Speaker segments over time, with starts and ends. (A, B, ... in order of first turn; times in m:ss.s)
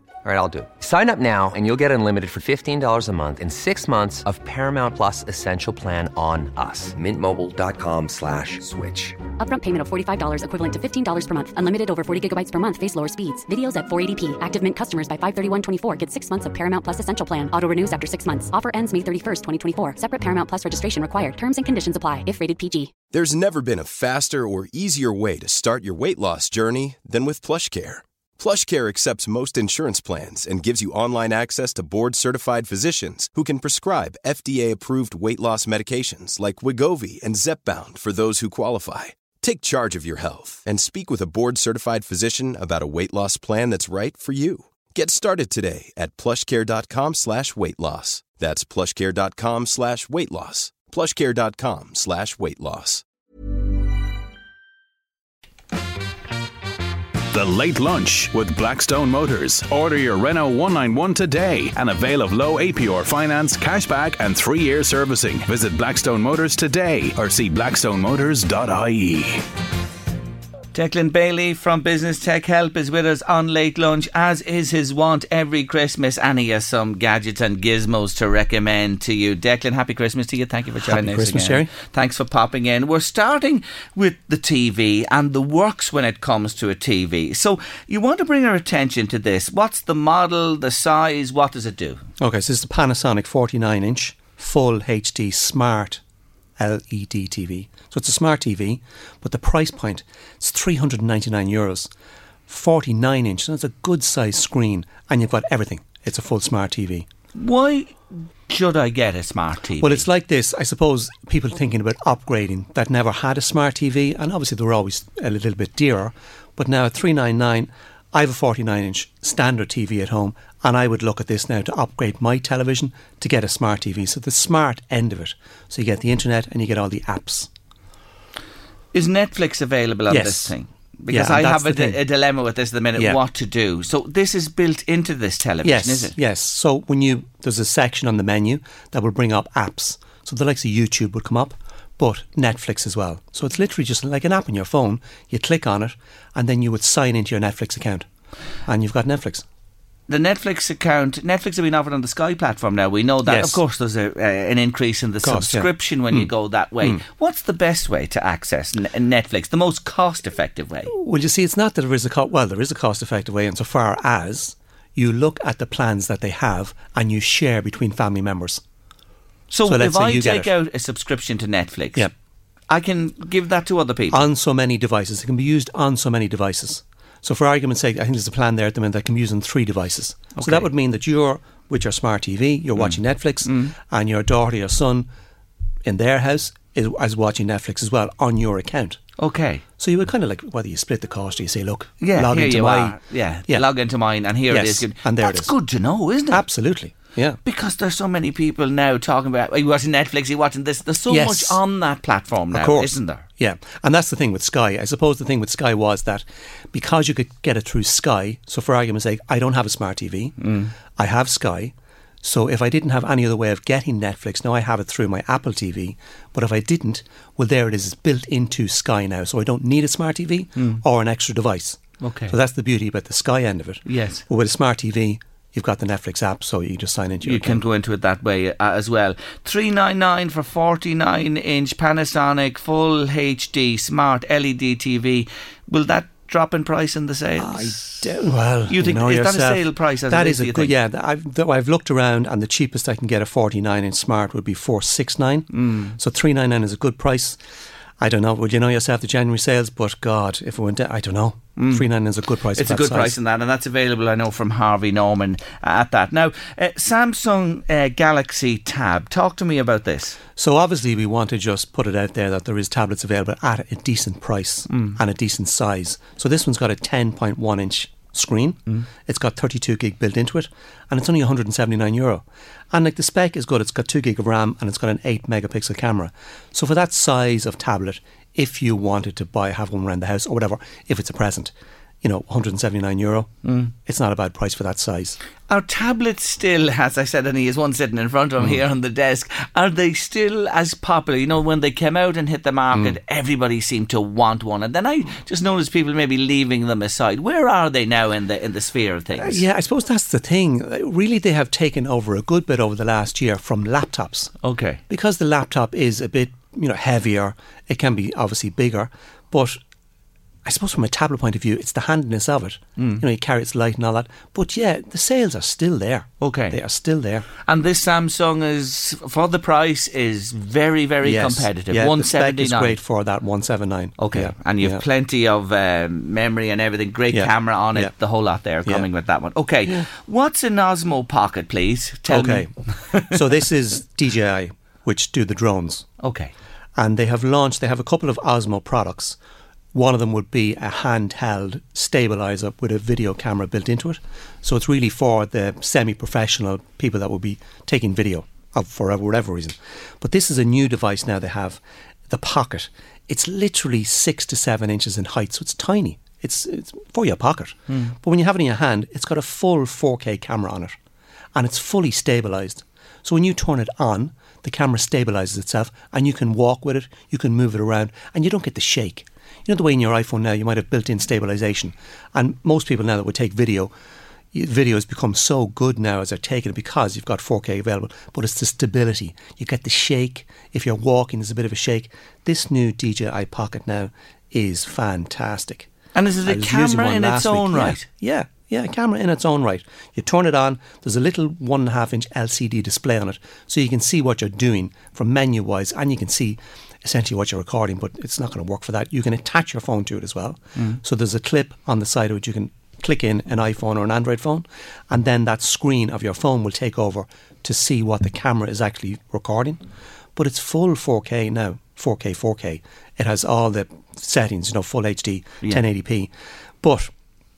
0:00.2-0:09.2 A
0:09.4-0:22.9 B
0:23.1-0:53.0 C
0:57.3-1:09.4 D
1:10.7-1:32.0 E
1:20.8-1:21.7 F
1:32.2-1:36.0 F
1:36.6-1:41.9 F
1:42.5-1:47.1 F
1:47.4-1:50.0 E
1:49.8-2:07.5 F
2:08.9-2:16.2 E
2:10.1-2:10.5 F
2:11.1-2:12.0 F
2:15.6-2:28.1 F
2:28.7-2:29.4 F
2:30.1-2:40.9 E
2:33.2-2:33.6 F
2:35.2-2:37.0 F
2:40.9-2:48.6 F
2:49.5-2:52.1 E
2:49.7-2:50.5 F
2:52.7-2:54.2 E
2:54.1-3:05.1 F
3:00.4-3:00.7 E
3:02.8-3:03.7 E
3:05.8-3:09.0 F
3:09.2-3:09.6 E
3:09.8-3:13.7 F
3:12.0-3:16.4 E
3:14.5-3:15.5 F
3:16.3-3:17.4 F
3:17.4-3:23.2 E
3:21.1-3:21.6 F
3:22.5-3:47.6 F
3:30.4-3:30.7 E
3:40.6-3:40.8 E
3:42.0-3:42.4 E
3:43.9-3:44.2 E
3:47.2-3:58.1 E
3:57.4-4:07.4 F
3:58.7-4:00.7 E
4:05.5-4:06.0 E
4:08.0-4:13.2 F
4:11.6-4:11.9 E
4:12.5-4:20.2 E
4:20.4-4:45.2 F
4:24.7-4:25.0 E
4:43.4-4:43.7 E
4:45.5-4:59.4 E
4:59.2-5:04.3 F
5:04.4-5:04.8 E
5:04.9-5:09.6 F
5:10.4-5:17.3 F
5:12.8-5:13.0 E
5:16.2-5:16.6 E
5:17.4-5:22.8 E
5:21.0-5:24.8 F
5:24.0-5:33.2 E
5:27.1-5:27.9 F
5:32.1-5:35.9 F
5:36.0-5:36.3 E
5:36.8-5:39.2 F
5:39.7-6:00.8 F
5:57.7-5:57.9 E
6:01.4-6:13.7 F
6:14.3-6:25.7 F
6:26.0-6:27.9 E
6:26.2-6:49.6 F
6:50.2-6:56.9 F